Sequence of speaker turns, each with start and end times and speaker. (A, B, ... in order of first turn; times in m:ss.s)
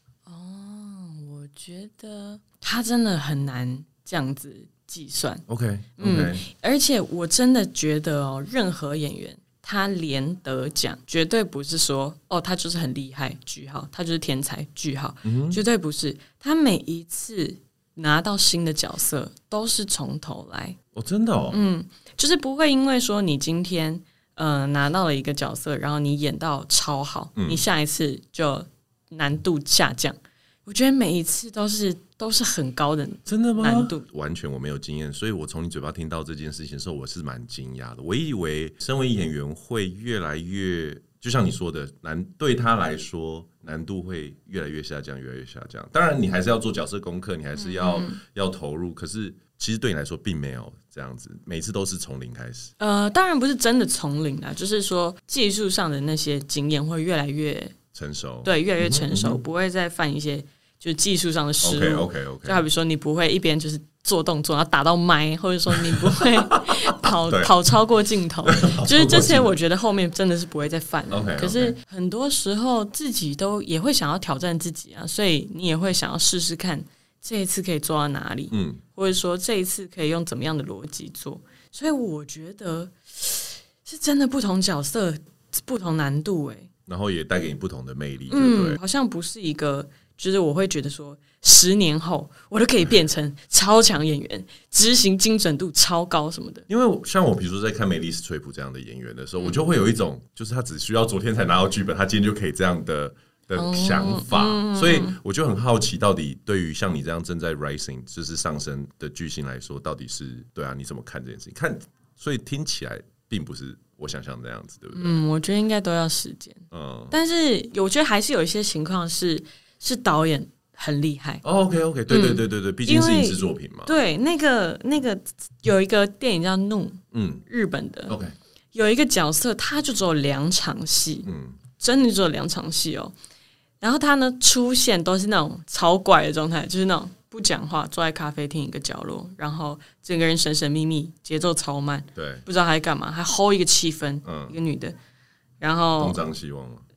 0:00.3-0:05.4 A
0:05.5-0:06.4 B
0:06.0-0:20.8 A
0:15.2-0:15.6 B
0:20.9-0:21.6 B
0:21.5-0:34.0 A
0:27.4-0:27.6 B
0:33.3-0:52.7 B
0:47.6-0:48.2 A
0:52.8-0:57.8 A
0:57.9-0:59.4 B
0:58.4-1:26.7 A
1:01.6-1:02.6 B
1:05.8-1:07.5 B
1:08.5-1:09.6 B
1:11.1-1:11.8 B
1:18.5-1:18.8 B
1:26.9-1:28.8 B
1:28.3-1:36.7 A
1:36.7-1:55.2 B
1:43.6-1:45.2 A
1:54.9-2:01.4 A
1:56.7-1:57.2 B
2:01.4-2:04.0 B
2:02.1-2:08.2 A
2:07.1-2:07.4 B
2:08.1-2:08.4 B
2:08.7-2:13.1 A
2:11.3-2:11.6 B
2:13.8-2:25.0 A
2:22.2-2:22.4 B
2:24.2-2:24.6 B
2:25.6-2:26.2 A
2:26.0-2:26.8 B